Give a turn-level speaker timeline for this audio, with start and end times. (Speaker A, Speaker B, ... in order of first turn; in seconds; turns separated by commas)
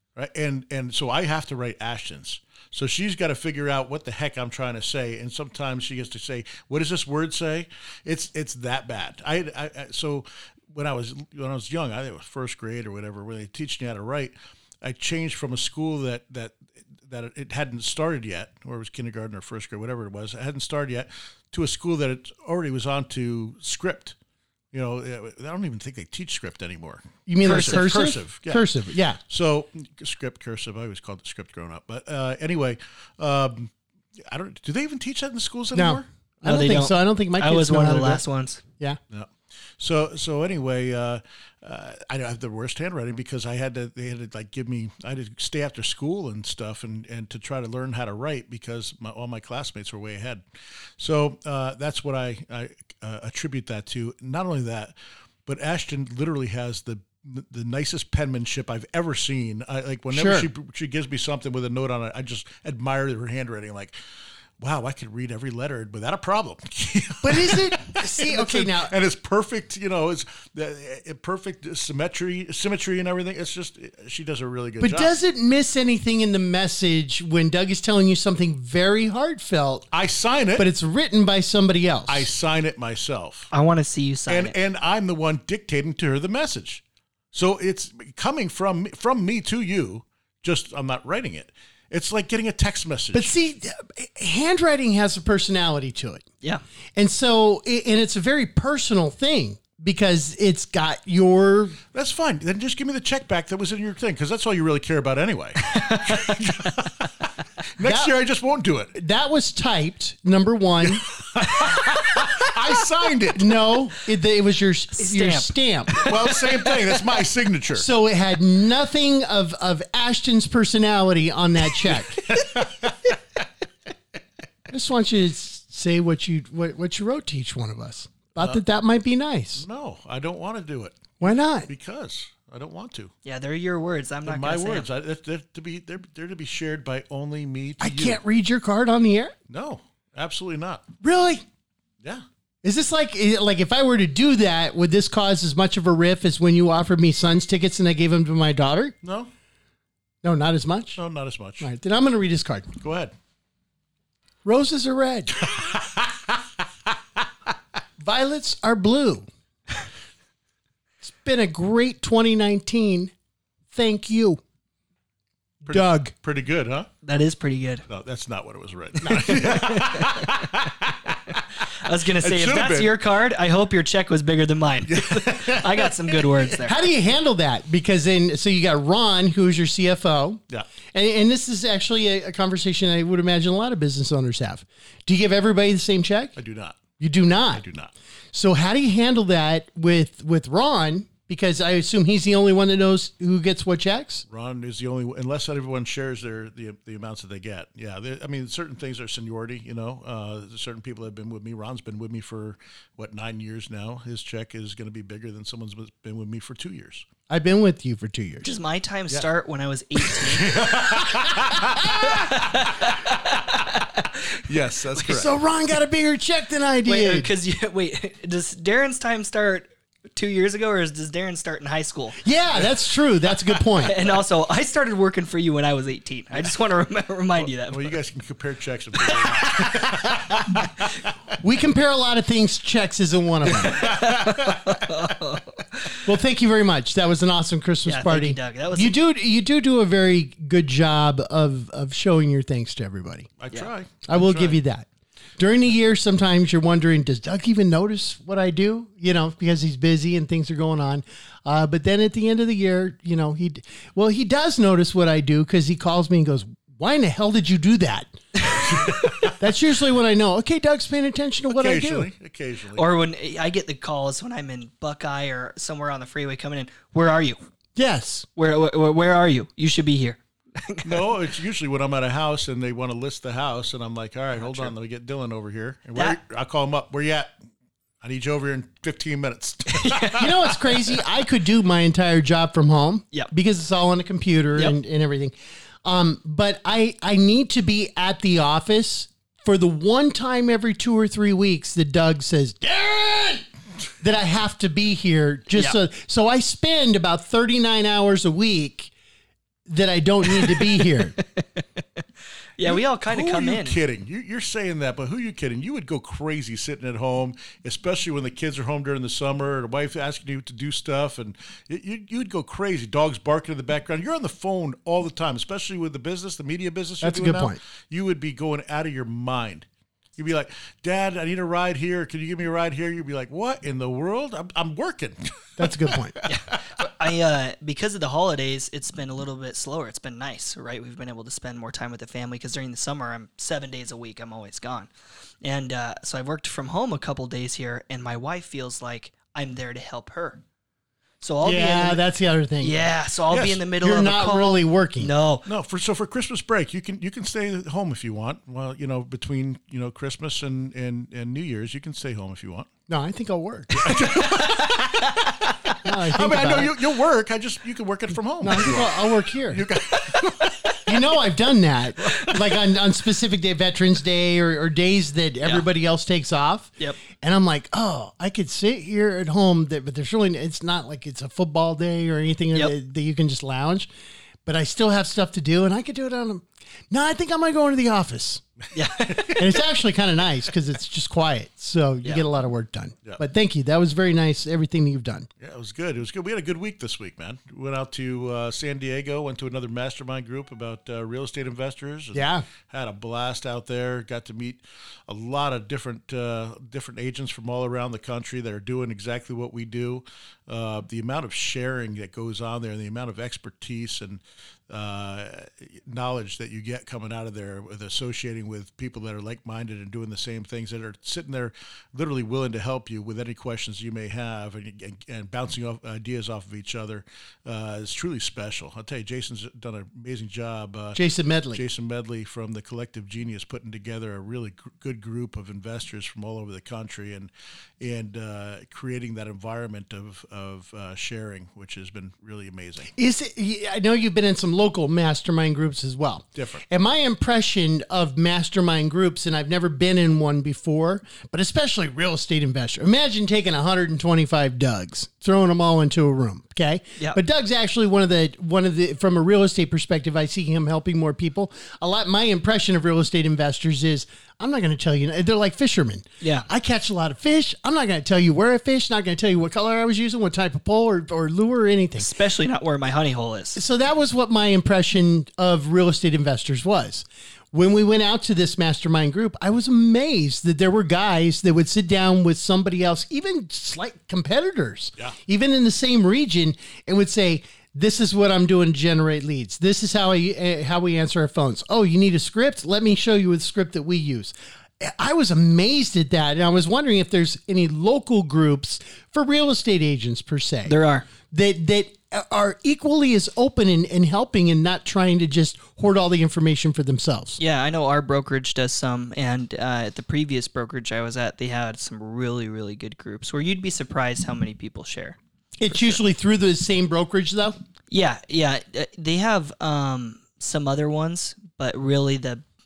Speaker A: 0.1-24.1, Speaker A: 24.7-28.7, Speaker B: 27.3-29.2, Speaker C: 27.4-27.8, Speaker A: 29.3-33.7, Speaker A: 34.3-36.1, Speaker B: 35.7-38.2, Speaker C: 36.4-38.6, Speaker A: 39.1-50.4, Speaker A: 51.0-54.9, Speaker A: 55.5-63.9, Speaker B: 60.1-60.5, Speaker A: 64.6-75.1, Speaker B: 67.2-69.0, Speaker B: 74.8-79.8, Speaker A: 79.9-80.7, Speaker B: 80.6-82.3, Speaker A: 82.1-83.5, Speaker C: 83.5-84.5, Speaker A: 84.3-86.8, Speaker A: 87.3-93.3, Speaker B: 93.1-96.2, Speaker B: 97.0-101.8, Speaker A: 101.9-107.1, Speaker C: 105.8-106.7, Speaker A: 107.8-108.9, Speaker B: 107.8-108.1, Speaker B: 108.9-111.0, Speaker A: 110.9-113.5, Speaker B: 113.3-116.1, Speaker C: 115.0-116.1, Speaker A: 116.0-117.9, Speaker B: 117.7-122.2, Speaker A: 121.9-123.1, Speaker B: 124.7-129.6, Speaker A: 129.6-133.1, Speaker B: 131.2-131.7, Speaker C: 133.2-134.9, Speaker A: 134.2-138.2, Speaker B: 137.8-139.3, Speaker A: 139.5-140.8, Speaker B: 141.0-141.4, Speaker B: 142.6-148.9, Speaker A: 149.0-149.3, Speaker B: 150.2-151.0, Speaker A: 151.0-151.7, Speaker B: 151.6-152.7, Speaker A: 152.8-153.1, Speaker B: 154.4-155.5, Speaker A: 155.4-156.4, Speaker B: 158.0-159.3, Speaker B: 161.0-163.1, Speaker B: 163.7-164.4, Speaker A: 165.6-166.9, Speaker B: 165.7-166.1, Speaker C: 167.0-167.8, Speaker A: 167.9-171.4, Speaker B: 169.0-169.5, Speaker C: 169.3-170.2, Speaker C: 171.8-176.8, Speaker A: 172.2-172.9, Speaker A: 174.9-176.2, Speaker B: 176.6-180.4, Speaker B: 180.9-186.3, Speaker A: 186.4-186.8, Speaker B: 187.0-187.7, Speaker A: 187.5-187.9, Speaker B: 188.3-194.2, Speaker A: 194.3-207.1, Speaker B: 207.3-208.5, Speaker C: 208.4-214.4, Speaker A: 210.1-212.9, Speaker A: 214.4-215.3, Speaker B: 215.0-217.3, Speaker C: 216.8-222.2, Speaker B: 222.2-223.9, Speaker C: 223.8-228.0, Speaker A: 227.4-230.8, Speaker C: 229.2-229.9, Speaker B: 231.4-233.9, Speaker A: 233.5-234.8, Speaker C: 233.8-236.0, Speaker B: 236.0-243.3, Speaker C: 237.8-238.9, Speaker A: 243.4-244.6, Speaker B: 244.1-244.9, Speaker B: 245.4-258.2, Speaker A: 258.6-259.4, Speaker B: 259.4-262.1, Speaker A: 261.5-263.0, Speaker C: 262.8-267.4, Speaker B: 267.8-268.3, Speaker C: 268.4-271.0, Speaker A: 270.8-277.3, Speaker C: 274.4-274.7, Speaker A: 278.0-280.3, Speaker C: 279.7-280.3, Speaker B: 280.2-293.4, Speaker B: 294.0-298.9, Speaker B: 299.6-301.2, Speaker C: 301.2-301.6, Speaker C: 302.6-303.8, Speaker A: 302.6-319.6, Speaker B: 317.0-317.6, Speaker A: 320.2-326.3, Speaker B: 325.6-326.2, Speaker C: 326.2-334.9, Speaker C: 335.4-340.4, Speaker C: 341.2-342.0, Speaker B: 341.4-342.8, Speaker C: 342.6-345.4, Speaker A: 343.3-343.6, Speaker B: 343.8-345.1, Speaker A: 345.4-352.7, Speaker B: 352.9-353.9, Speaker A: 353.7-355.4, Speaker C: 354.3-355.1, Speaker B: 355.8-356.8, Speaker A: 356.0-360.8, Speaker B: 358.4-359.7, Speaker B: 360.9-373.9, Speaker A: 362.0-362.5, Speaker C: 365.4-365.7, Speaker B: 374.4-378.4, Speaker C: 378.7-379.4, Speaker B: 379.2-385.3, Speaker A: 385.4-421.0, Speaker B: 392.1-392.4, Speaker B: 420.9-421.6, Speaker A: 421.5-432.9, Speaker B: 432.9-462.1, Speaker A: 436.4-436.6, Speaker C: 456.2-456.5, Speaker C: 462.0-463.6, Speaker B: 463.6-490.8, Speaker C: 490.7-491.1, Speaker B: 491.3-497.4, Speaker C: 497.4-505.2, Speaker B: 505.6-507.6, Speaker C: 505.7-506.0, Speaker C: 507.9-512.4